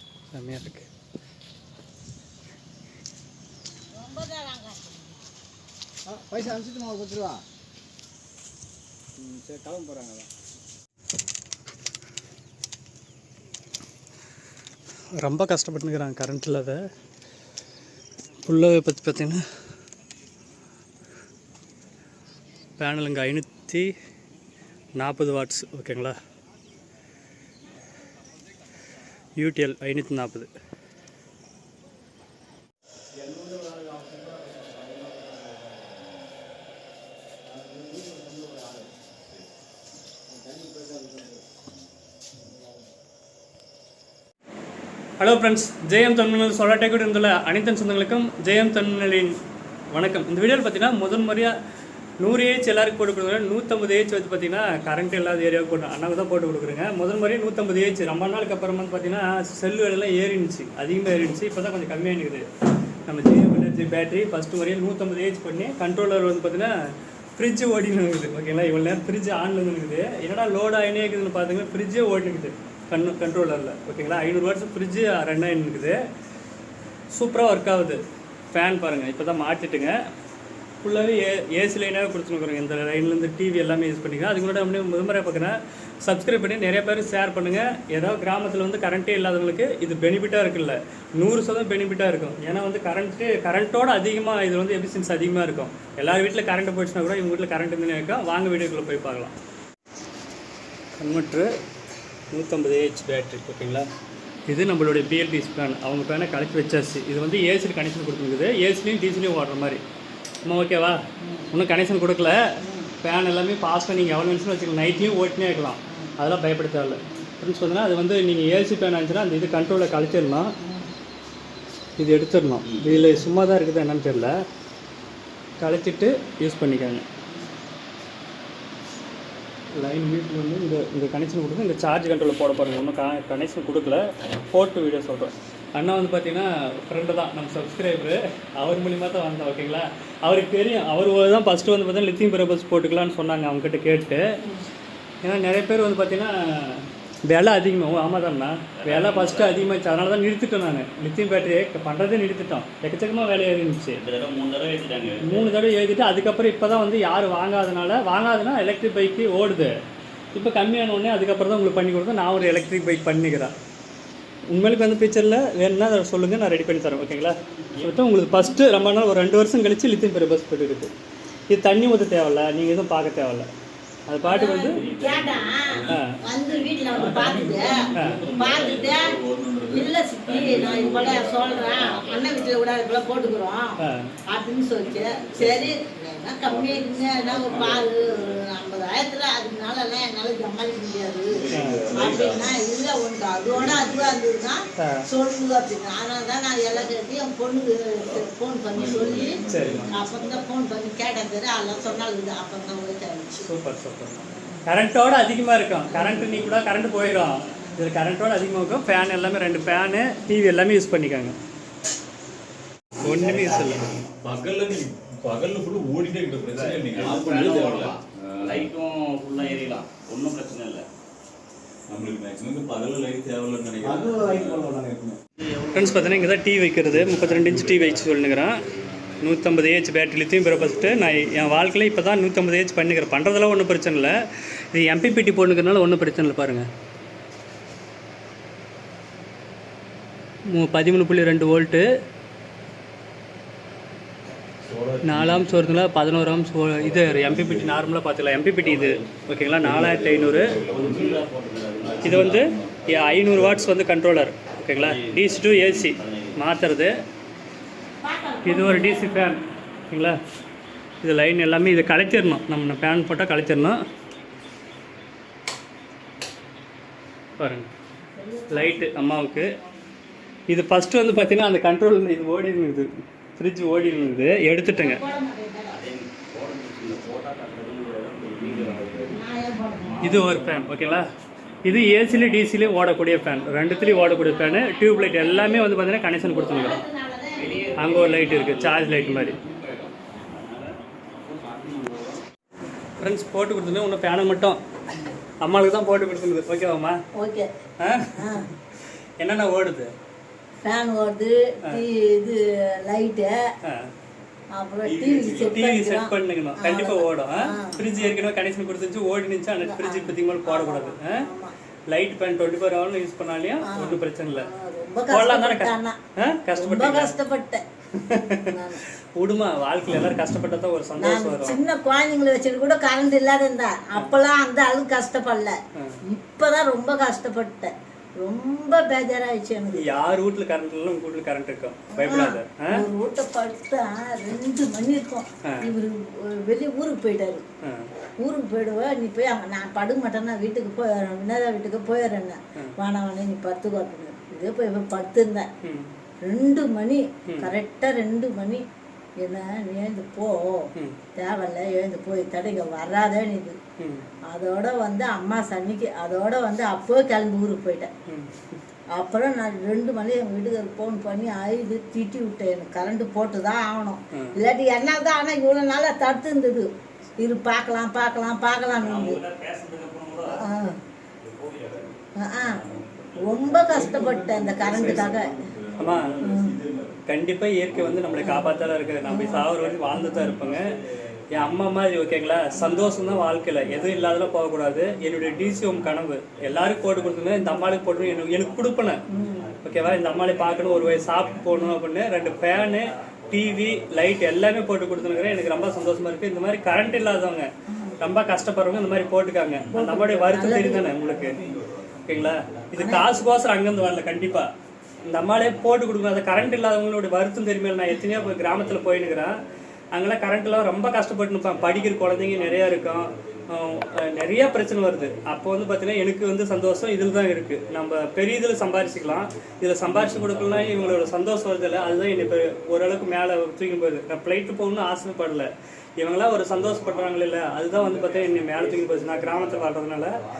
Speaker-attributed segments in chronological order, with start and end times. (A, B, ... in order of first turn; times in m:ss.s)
0:00.3-0:00.8 A
0:03.9-0:05.1 B
0:06.2-0:07.4 C
0:09.2-0:10.2 C
0:15.2-0:16.8 A
0:18.4-0:19.4 A
0:22.8-0:23.9 A
0:25.0-0:26.1 A
0:29.4-0:30.5 A
0:33.2-0:35.1 C
0:37.6-0:38.8 C
0:40.5-0:41.2 C
0:45.2-0:49.4 A
0:49.9-0:51.5 A
0:52.2-1:02.5 A
1:03.1-1:06.7 A
1:07.4-1:16.0 A
1:17.1-1:20.0 A
1:20.8-1:39.3 A
1:41.0-1:41.5 A
1:42.3-1:43.9 A
1:44.5-1:49.8 A
1:50.4-1:51.0 A
1:51.2-1:51.5 B
1:51.5-1:52.4 A
1:52.6-1:52.9 B
1:53.0-2:00.5 A
1:55.9-1:56.2 B
1:57.0-1:57.3 B
2:00.6-2:00.9 B
2:02.0-2:04.4 A
2:02.7-2:03.0 D
2:05.6-2:07.0 A
2:09.7-2:24.4 A
2:25.2-2:34.0 A
2:28.8-2:29.7 D
2:34.0-2:35.6 D
2:35.2-2:39.7 A
2:40.3-2:43.5 A
2:44.5-2:50.9 A
2:51.5-2:53.5 A
2:54.1-2:54.8 A
2:54.2-2:59.2 B
2:54.8-2:56.1 E
2:55.0-2:55.4 D
2:55.9-2:56.2 A
2:56.8-3:02.6 E
2:59.7-3:03.8 B
3:03.8-3:04.1 A
3:04.3-3:23.5 B
3:04.8-3:05.8 E
3:06.4-3:08.4 E
3:11.3-3:12.6 E
3:11.5-3:11.9 A
3:13.5-3:14.2 E
3:14.8-3:15.0 A
3:18.0-3:20.5 E
3:19.5-3:19.9 A
3:21.7-3:22.0 D
3:23.5-3:31.3 A
3:24.3-3:24.6 B
3:25.9-3:26.5 B
3:26.4-3:27.5 D
3:33.0-3:33.9 A
3:33.0-3:34.1 D
3:33.5-3:38.7 E
3:36.5-3:40.8 D
3:41.9-3:44.7 E
3:43.8-3:45.2 C
3:45.4-3:46.4 D
3:45.7-3:48.6 A
3:46.8-3:49.6 E
3:49.2-3:54.1 A
3:50.4-3:51.6 E
3:54.7-3:56.6 A
4:00.5-4:01.8 A
4:04.6-4:05.8 E
4:05.0-4:10.6 A
4:06.8-4:07.9 E
4:08.7-4:09.0 D
4:09.6-4:11.3 E
4:09.8-4:12.4 D
4:11.8-4:13.7 E
4:12.0-4:16.9 A
4:14.8-4:16.4 D
4:18.0-4:19.3 B
4:18.4-4:20.2 A
4:21.0-4:23.8 A
4:27.4-4:27.7 A
4:28.1-4:29.7 B
4:28.5-4:29.5 A
4:30.5-4:35.0 A
4:34.6-4:35.8 B
4:35.7-4:39.2 D
4:38.4-4:38.9 E
4:39.1-4:40.3 B
4:39.8-4:40.9 D
4:40.0-4:41.0 A
4:41.6-4:46.8 A
4:41.9-4:43.2 D
4:43.6-4:48.8 B
4:47.4-4:52.2 D
4:47.8-4:49.4 A
4:53.0-4:54.6 A
4:55.4-4:57.0 A
4:57.2-4:57.5 B
4:57.8-4:58.4 A
4:58.2-4:58.5 B
4:59.2-4:59.9 A
5:00.6-5:03.4 B
5:03.6-5:03.9 A
5:04.5-5:08.0 B
5:04.8-5:05.6 E
5:05.3-5:11.2 A
5:09.6-5:11.5 B
5:11.9-5:14.5 A
5:13.7-5:16.0 B
5:15.1-5:17.2 A
5:16.5-5:17.6 B
5:18.0-5:18.5 A
5:18.5-5:18.8 B
5:19.1-5:21.6 A
5:21.0-5:25.6 B
5:26.1-5:27.7 B
5:28.2-5:29.9 B
5:29.7-5:32.8 A
5:32.0-5:37.4 B
5:37.6-5:37.9 A
5:38.2-5:45.5 B
5:45.6-5:45.9 A
5:46.3-5:48.6 B
5:49.2-5:53.6 B
5:53.8-5:54.0 A
5:54.3-5:57.9 B
5:58.1-5:58.6 A
5:58.9-6:06.7 B
6:07.2-6:09.2 B
6:08.7-6:10.4 D
6:10.3-6:10.8 B
6:11.2-6:14.2 D
6:12.2-6:12.6 B
6:13.2-6:15.4 B
6:13.7-6:17.0 E
6:14.7-6:15.2 A
6:15.8-6:16.2 A
6:16.2-6:16.6 B
6:17.1-6:20.7 A
6:17.7-6:19.3 E
6:18.2-6:18.5 B
6:19.0-6:20.4 B
6:19.2-6:31.5 D
6:20.2-6:20.6 E
6:21.3-6:29.0 A
6:22.9-6:23.5 E
6:29.1-6:29.5 B
6:29.6-6:41.4 A
6:31.5-6:31.7 B
6:32.1-6:40.0 D
6:37.7-6:38.0 B
6:39.7-6:41.3 B
6:40.6-6:44.4 D
6:42.1-6:44.5 A
6:42.8-6:43.1 B
6:45.0-6:46.7 D
6:45.0-6:49.4 A
6:47.9-6:49.5 D
6:49.9-7:10.2 A
6:50.6-6:50.8 D
6:51.4-7:03.2 D
7:06.7-7:07.0 D
7:07.9-7:09.7 D